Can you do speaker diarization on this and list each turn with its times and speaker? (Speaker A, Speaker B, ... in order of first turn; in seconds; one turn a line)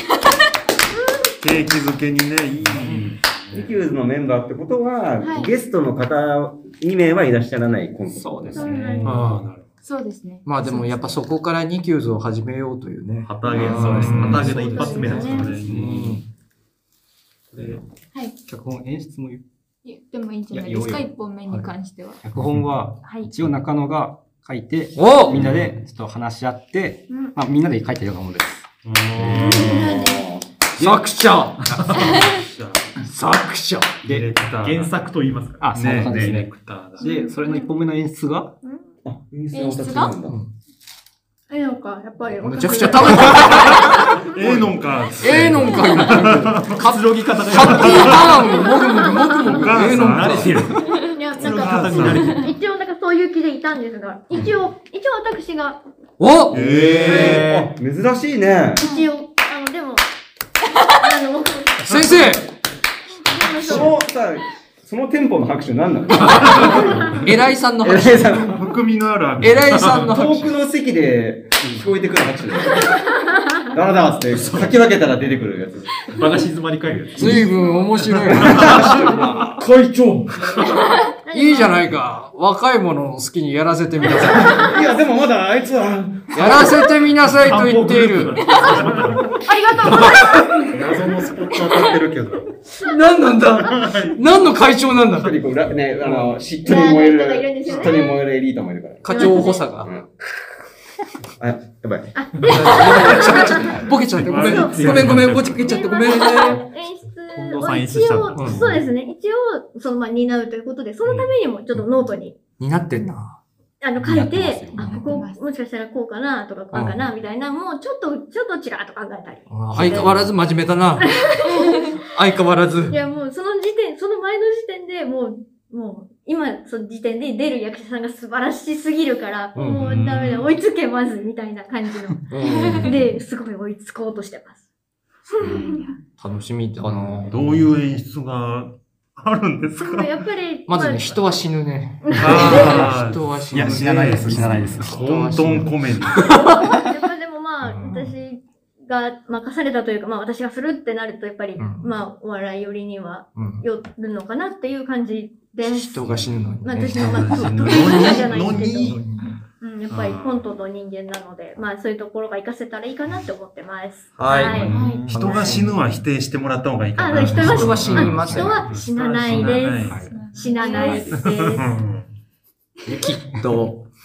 Speaker A: 1.4-3.8
Speaker B: 2.7-3.1
Speaker C: 3.5-8.7
Speaker D: 5.2-5.5
Speaker E: 8.2-9.1
Speaker F: 8.5-9.4
Speaker A: 8.9-9.7
Speaker D: 9.8-11.2
Speaker B: 10.4-14.6
Speaker G: 13.2-15.7
Speaker A: 13.5-16.2
Speaker D: 14.4-15.4
Speaker F: 14.4-15.6
Speaker B: 15.6-16.2
Speaker E: 17.5-17.8
Speaker E: 18.4-19.4
Speaker D: 19.8-22.2
Speaker E: 20.5-21.1
Speaker E: 22.2-28.7
Speaker D: 23.0-23.3
Speaker B: 24.9-25.4
Speaker A: 25.3-25.8
Speaker A: 28.8-30.1
Speaker C: 29.4-30.4
Speaker F: 29.4-30.3
Speaker B: 30.8-32.0
Speaker G: 31.6-32.1
Speaker A: 31.9-33.0
Speaker D: 32.0-32.4
Speaker B: 33.0-34.0
Speaker A: 34.0-34.9
Speaker G: 34.6-36.4
Speaker E: 35.6-38.6
Speaker A: 35.7-37.0
Speaker F: 37.0-37.7
Speaker D: 37.0-37.3
Speaker C: 39.0-40.4
Speaker D: 39.5-40.2
Speaker B: 40.3-40.5
Speaker F: 41.5-44.4
Speaker B: 42.4-43.9
Speaker A: 43.1-46.9
Speaker B: 45.2-50.6
Speaker G: 46.6-48.5
Speaker A: 47.6-48.6
Speaker F: 48.5-49.5
Speaker A: 49.4-50.8
Speaker G: 50.0-52.5
Speaker F: 50.8-55.8
Speaker A: 51.4-52.4
Speaker D: 52.2-52.5
Speaker B: 56.2-57.5
Speaker A: 56.5-57.5
Speaker C: 56.5-58.8
Speaker G: 57.1-57.6
Speaker F: 58.8-60.0
Speaker D: 58.8-59.1
Speaker F: 61.0-62.4
Speaker B: 61.8-62.5
Speaker F: 63.3-63.9
Speaker C: 63.6-67.2
Speaker A: 66.2-67.2
Speaker F: 66.6-67.2
Speaker B: 67.2-68.3
Speaker C: 67.8-68.7
Speaker A: 68.2-70.1
Speaker B: 69.4-70.6
Speaker C: 70.0-73.0
Speaker C: 73.7-76.2
Speaker G: 74.3-74.7
Speaker G: 76.1-77.5
Speaker B: 77.1-79.6
Speaker F: 77.3-77.8
Speaker G: 78.3-78.9
Speaker C: 78.4-80.4
Speaker A: 78.6-78.9
Speaker F: 80.6-81.9
Speaker B: 81.3-84.7
Speaker F: 84.0-84.8
Speaker C: 84.3-86.9
Speaker B: 86.3-88.8
Speaker G: 87.5-89.3
Speaker A: 88.3-92.5
Speaker F: 89.3-91.2
Speaker B: 92.8-95.3
Speaker A: 93.6-94.2
Speaker C: 95.1-100.2
Speaker F: 96.6-98.2
Speaker B: 99.0-99.9
Speaker F: 99.1-99.6
Speaker D: 99.1-99.6
Speaker C: 101.4-102.2
Speaker F: 102.1-105.0
Speaker B: 102.4-106.7
Speaker A: 104.2-105.7
Speaker G: 104.4-105.8
Speaker F: 105.6-112.4
Speaker G: 107.3-108.8
Speaker A: 108.4-108.6
Speaker A: 111.0-111.3
Speaker B: 112.6-113.4
Speaker F: 113.8-120.3
Speaker E: 114.0-115.2
Speaker D: 114.7-115.4
Speaker B: 116.7-117.0
Speaker B: 119.5-121.1
Speaker F: 121.0-122.0
Speaker D: 121.6-122.0
Speaker B: 122.1-123.0
Speaker F: 122.9-134.6
Speaker B: 129.5-130.0
Speaker A: 129.8-130.5
Speaker B: 132.3-132.9
Speaker D: 132.6-132.9
Speaker F: 135.3-135.9
Speaker D: 135.4-136.0
Speaker B: 136.2-137.7
Speaker A: 137.2-140.2
Speaker F: 139.8-141.4
Speaker B: 140.7-146.9
Speaker F: 142.0-142.8
Speaker A: 142.1-146.5
Speaker E: 143.5-145.7
Speaker F: 146.4-159.0
Speaker B: 147.8-148.0
Speaker B: 151.6-151.9
Speaker B: 153.3-153.6
Speaker B: 155.6-159.4
Speaker A: 156.9-159.1
Speaker F: 159.6-164.8
Speaker A: 159.9-160.5
Speaker B: 164.2-165.8
Speaker A: 164.5-170.2
Speaker D: 164.5-165.2
Speaker F: 167.0-171.8
Speaker B: 167.2-168.7
Speaker E: 167.8-168.7
Speaker D: 169.8-171.4
Speaker E: 169.9-170.2
Speaker A: 170.9-172.1
Speaker B: 172.8-173.9